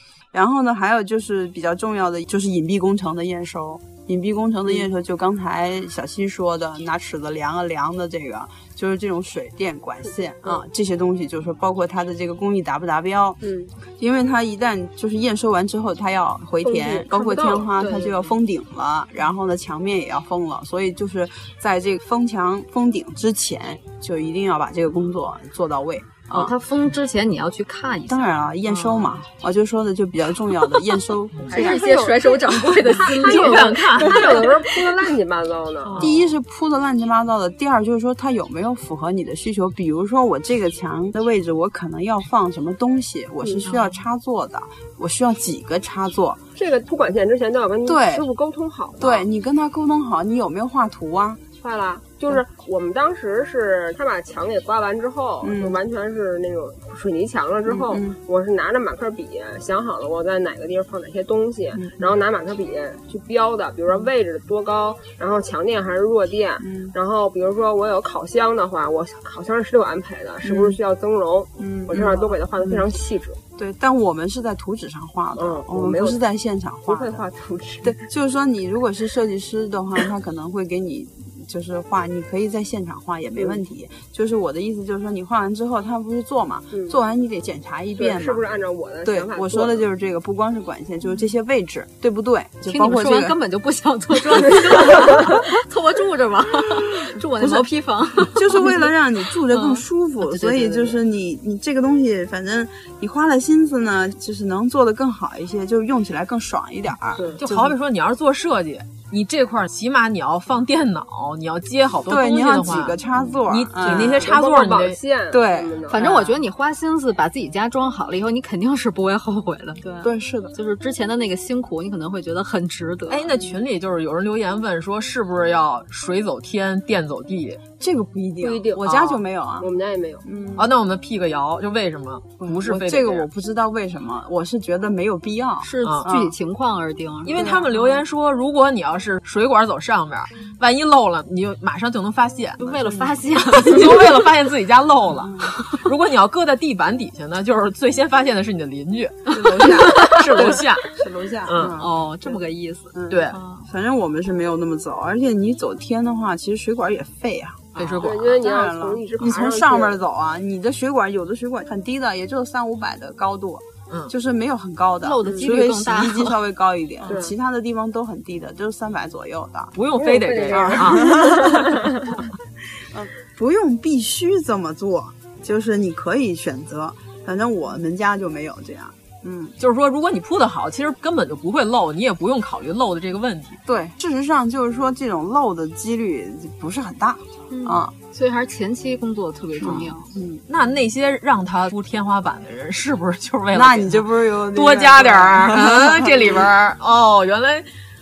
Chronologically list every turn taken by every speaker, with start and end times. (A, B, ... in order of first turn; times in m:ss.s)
0:00.3-0:13.4 A
0:13.4-0:13.7 B
0:13.9-0:26.5 A
0:16.6-0:17.7 B
0:17.8-0:18.3 C
0:26.3-0:29.1 C
0:28.1-0:31.9 A
0:31.5-0:34.9 C
0:31.5-0:36.1 B
0:33.1-0:34.5 D
0:36.0-0:46.4 A
0:46.6-0:49.2 B
0:47.8-0:48.3 A
0:49.0-0:51.4 A
0:51.6-1:13.4 B
0:55.4-0:55.8 A
0:57.7-0:58.2 A
1:01.8-1:02.2 A
1:06.6-1:07.0 A
1:10.4-1:10.8 A
1:11.6-1:12.9 A
1:13.6-1:17.2 A
1:15.4-1:16.2 B
1:16.9-1:18.0 B
1:17.8-1:28.4 A
1:26.7-1:27.0 B
1:28.0-1:29.8 B
1:29.0-1:33.4 A
1:32.7-1:38.8 C
1:37.4-1:37.7 A
1:38.2-1:47.8 A
1:39.5-1:41.0 C
1:47.4-1:53.0 D
1:52.1-1:54.3 A
1:53.5-1:55.0 D
1:54.1-1:56.0 B
1:55.3-1:55.8 A
1:55.9-2:03.3 C
1:56.0-1:56.4 D
2:00.0-2:00.5 A
2:03.1-2:07.6 D
2:07.8-2:09.7 A
2:08.4-2:10.2 B
2:08.8-2:09.1 D
2:10.2-2:10.7 A
2:10.6-2:13.3 D
2:12.4-2:16.3 A
2:15.6-2:17.5 C
2:17.2-2:22.6 D
2:17.3-2:17.8 A
2:22.6-2:24.1 C
2:23.5-2:30.9 D
2:25.2-2:25.6 A
2:29.3-2:49.8 A
2:29.6-2:30.2 C
2:31.5-2:31.8 D
2:31.5-2:33.6 C
2:33.1-2:33.4 D
2:37.8-2:38.3 D
2:38.0-2:40.0 B
2:45.0-2:46.4 C
2:47.1-2:47.3 B
2:49.8-2:52.0 D
2:50.0-2:52.1 B
2:50.4-2:51.7 A
2:52.9-2:59.6 A
2:59.6-3:03.6 D
3:03.7-3:07.9 A
3:07.5-3:10.0 C
3:09.6-3:10.4 A
3:09.6-3:09.9 D
3:10.5-3:17.7 D
3:13.5-3:16.5 A